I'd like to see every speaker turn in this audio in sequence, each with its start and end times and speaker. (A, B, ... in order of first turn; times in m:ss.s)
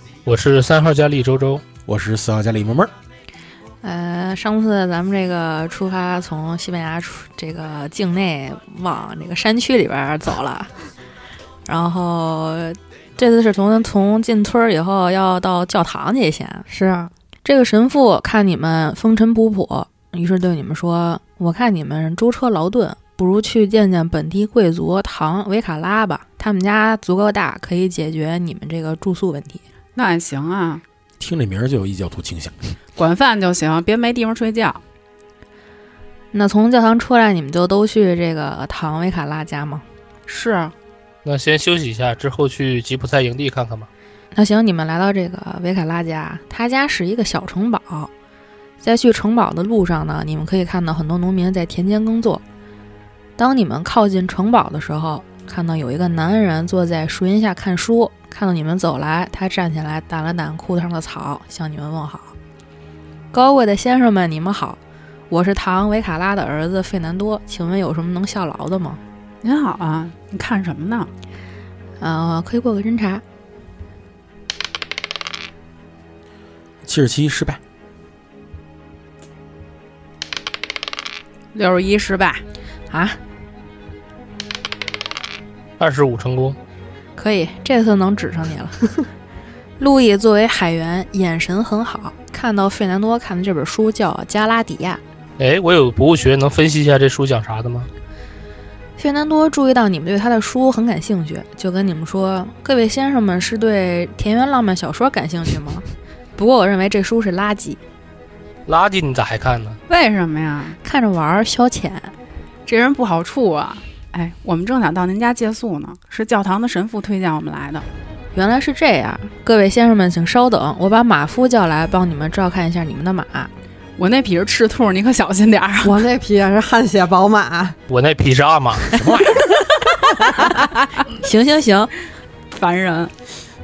0:00.3-0:01.6 A
0:01.9-0:02.9 B
0:03.8-0:10.7 C
0:11.7-0:16.7 C
0:16.7-0:17.1 D
0:17.4-0:29.6 C
0:30.0-0:30.8 E
0:31.2-0:32.6 B
0:33.0-0:34.8 E
0:36.3-0:39.8 C
0:40.3-0:40.7 E
0:41.2-0:43.9 A
0:44.3-0:48.1 C
0:48.8-0:52.4 C
0:53.4-1:02.3 C
1:03.3-1:04.8 C
1:05.3-1:09.0 C
1:09.4-1:11.1 E
1:12.0-1:13.2 C
1:16.8-1:17.6 B
1:21.5-1:22.4 E
1:22.9-1:23.2 C
1:25.8-1:26.6 A
1:27.2-1:28.8 C
1:29.8-1:35.0 C
1:35.4-1:37.9 A
1:39.0-1:45.8 C
1:46.4-1:47.8 C
1:48.7-1:49.8 A
1:49.9-1:50.8 E
1:50.8-1:52.1 C
1:52.7-1:57.8 E
1:58.3-2:03.5 C
2:04.0-2:06.0 E
2:05.8-2:07.8 D
2:07.9-2:08.9 A
2:09.0-2:09.5 B
2:11.2-2:11.9 C
2:12.5-2:13.1 E